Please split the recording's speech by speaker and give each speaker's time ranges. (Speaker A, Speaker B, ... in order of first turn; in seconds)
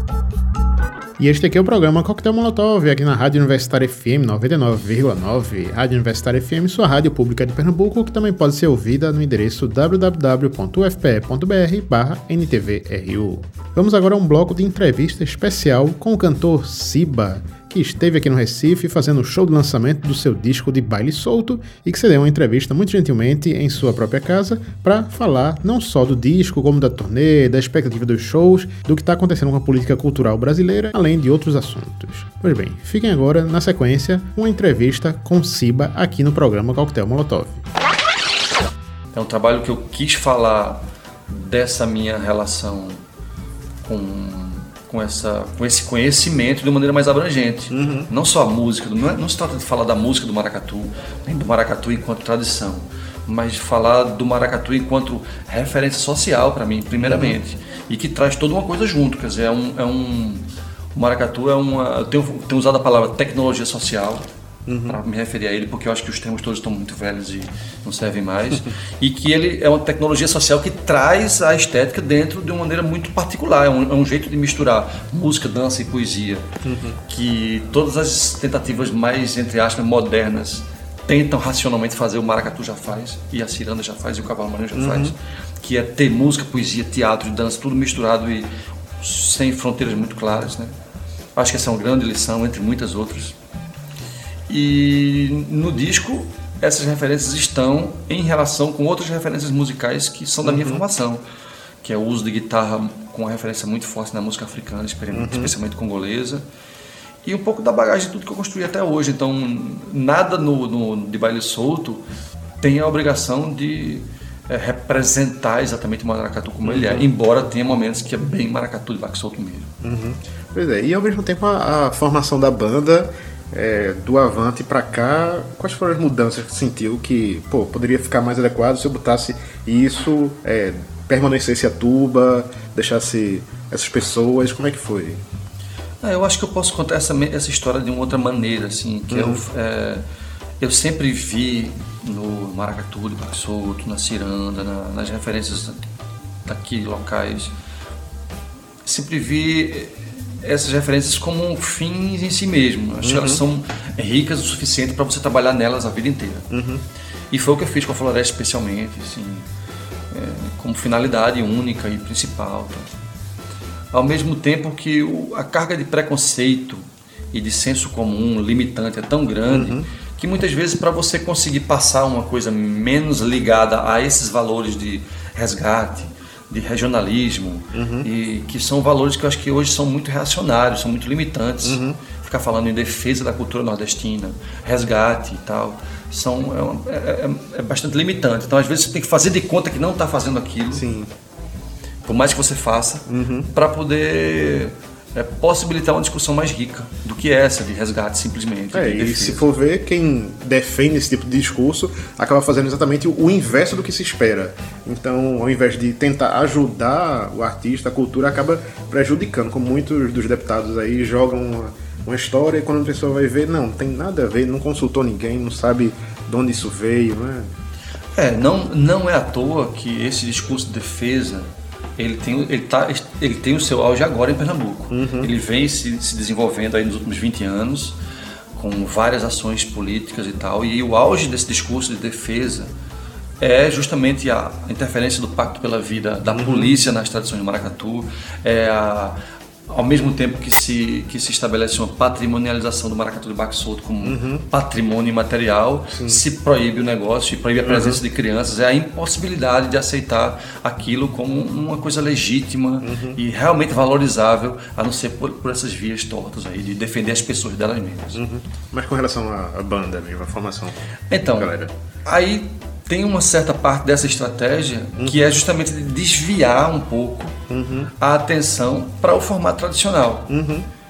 Speaker A: 1.2-37.6, 47.7-48.1, 57.0-57.4, 64.7-65.0, 76.6-77.0, 84.8-85.1, 100.5-100.8, 105.1-105.5, 116.6-117.0, 119.8-135.2, 139.1-139.4, 153.0-153.4, 156.5-156.8, 169.5-169.8, 177.7-178.1, 181.6-182.0, 190.7-191.1, 193.1-193.5, 198.7-217.5, 224.9-225.3, 236.3-236.7, 244.0-244.4, 245.9-246.2, 247.7-248.0, 252.8-253.2, 258.1-260.7, 261.4-261.7, 267.5-267.9, 270.3-270.6
Speaker B: 39.1-43.0, 43.8-64.3, 64.9-76.5, 77.1-90.7, 91.3-93.3, 94.5-101.2, 101.8-106.4, 107.2-112.0, 112.6-119.7, 136.0-140.0, 140.6-145.8, 146.4-147.5, 148.8-156.5, 157.3-159.4, 160.1-162.9, 163.9-190.9, 192.0-199.5, 218.1-228.0, 228.6-232.7, 233.4-239.2, 239.7-258.2, 261.1-267.4, 268.0-270.3